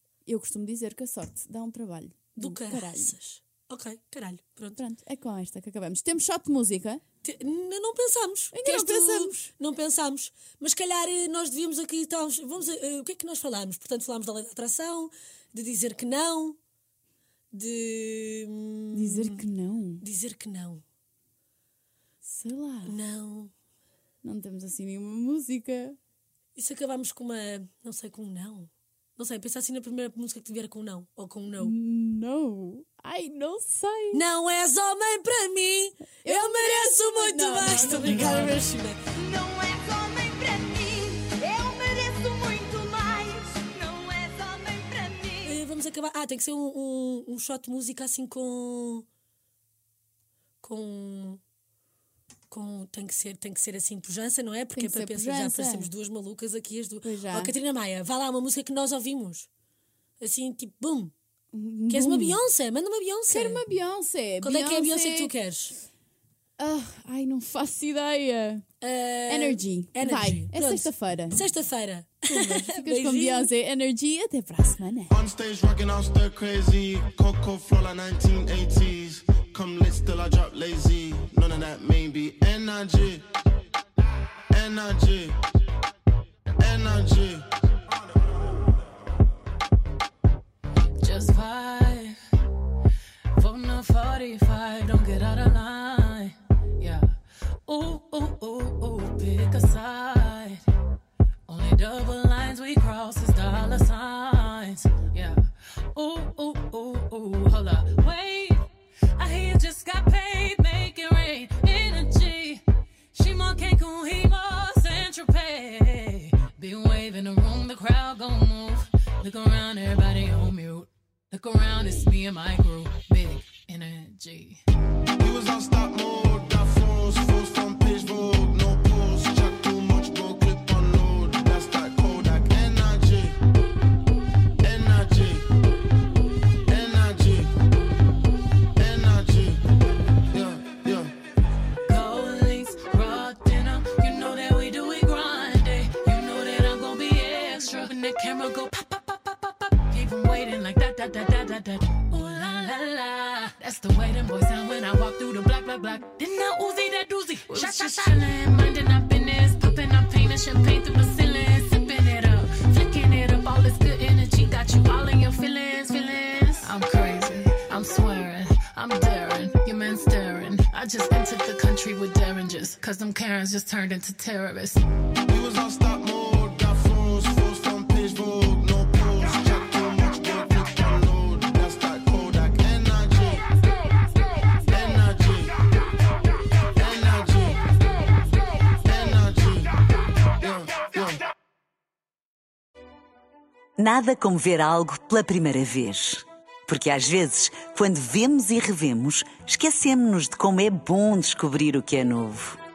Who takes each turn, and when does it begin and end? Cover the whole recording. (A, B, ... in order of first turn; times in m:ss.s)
0:00.3-0:03.2 A
0:02.4-0:04.8 B
0:04.8-0:07.0 A
0:07.2-0:16.6 B
0:08.5-0:09.5 A
0:17.5-0:19.4 B
0:18.9-0:20.0 A
0:20.0-0:20.8 B
0:22.2-0:23.0 A
0:22.8-0:23.5 B
0:24.2-0:26.0 A
0:26.6-0:31.7 B
0:31.6-0:34.2 A
0:34.1-0:39.0 B
0:36.2-0:38.6 A
0:39.2-0:45.4 C
0:39.4-0:39.7 A
0:45.4-0:49.0 B
0:50.6-0:51.4 B
0:52.5-0:59.5 B
0:54.8-0:55.9 A
0:57.0-0:57.5 A
1:00.2-1:01.1 B
1:01.5-1:02.4 A
1:01.9-1:03.6 B
1:03.3-1:05.3 A
1:04.4-1:05.7 B
1:06.6-1:08.6 A
1:08.8-1:13.5 B
1:09.3-1:11.4 A
1:12.3-1:15.1 A
1:15.1-1:23.2 D
1:24.5-1:25.4 D
1:26.6-1:28.5 D
1:31.0-1:32.2 E
1:33.3-1:37.1 E
1:37.6-1:40.6 E
1:41.4-1:52.6 E
1:53.1-2:04.6 E
2:05.2-2:13.4 D
2:14.6-2:15.4 D
2:16.7-2:17.5 D
2:18.8-2:19.6 D
2:20.3-2:21.1 D
2:21.8-2:54.8 E
2:37.8-2:38.1 A
2:55.3-3:03.4 D
3:04.7-3:05.5 D
3:06.8-3:07.6 D
3:08.8-3:09.7 D
3:10.4-3:11.2 D
3:13.8-3:22.6 F